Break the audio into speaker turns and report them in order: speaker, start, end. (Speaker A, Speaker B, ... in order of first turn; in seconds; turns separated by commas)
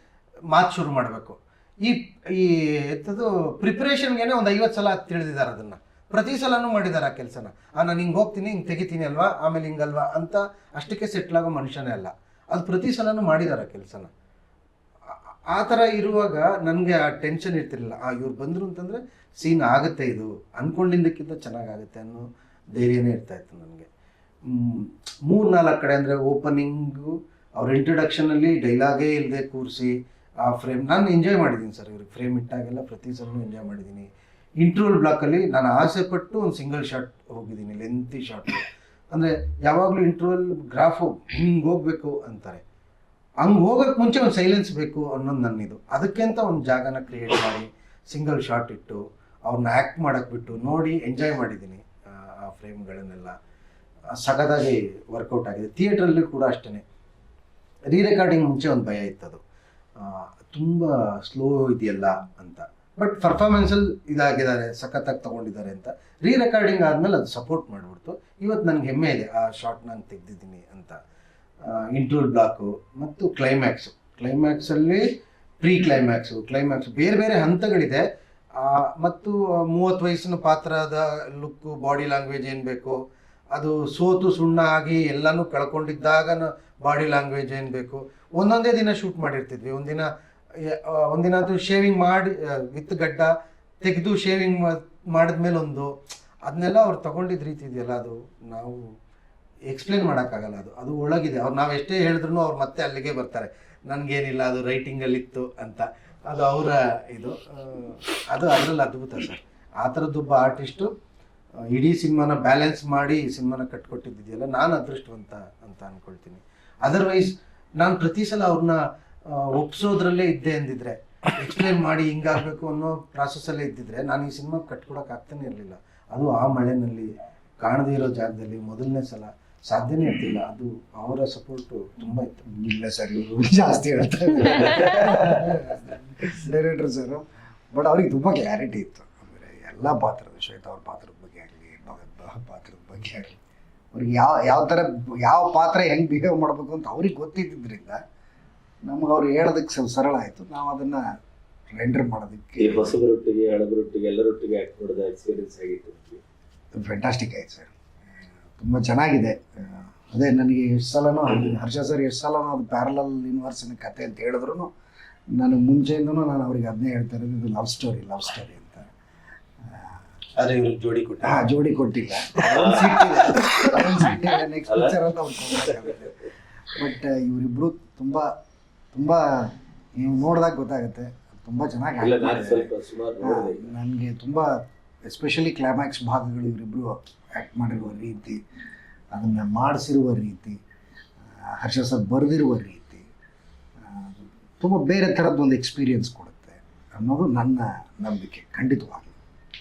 Speaker A: 0.5-14.1, Speaker A: 15.5-23.9, Speaker A: 24.5-34.1, Speaker A: 34.6-42.6, Speaker A: 43.4-53.4, Speaker A: 54.1-56.8, Speaker A: 57.9-59.4, Speaker A: 60.0-71.0, Speaker A: 71.6-75.1, Speaker A: 75.6-78.0, Speaker A: 78.6-83.0, Speaker A: 83.5-90.1, Speaker A: 90.6-93.3, Speaker A: 93.8-95.9, Speaker A: 96.5-98.9, Speaker A: 99.7-110.9, Speaker A: 111.7-132.4, Speaker B: 132.5-143.4, Speaker B: 143.9-148.0, Speaker B: 148.8-151.2, Speaker B: 151.7-153.0, Speaker C: 152.6-156.2, Speaker B: 156.8-157.7, Speaker B: 158.6-164.7, Speaker C: 161.3-161.6, Speaker B: 165.3-168.9, Speaker B: 169.6-170.0, Speaker A: 170.4-171.4, Speaker B: 171.2-178.3, Speaker A: 172.5-173.2, Speaker C: 172.5-173.1, Speaker C: 174.7-175.0, Speaker C: 175.5-175.9, Speaker B: 178.9-182.7, Speaker C: 182.0-183.7, Speaker B: 183.2-188.4, Speaker B: 189.1-190.6, Speaker B: 191.2-193.1, Speaker B: 193.8-199.2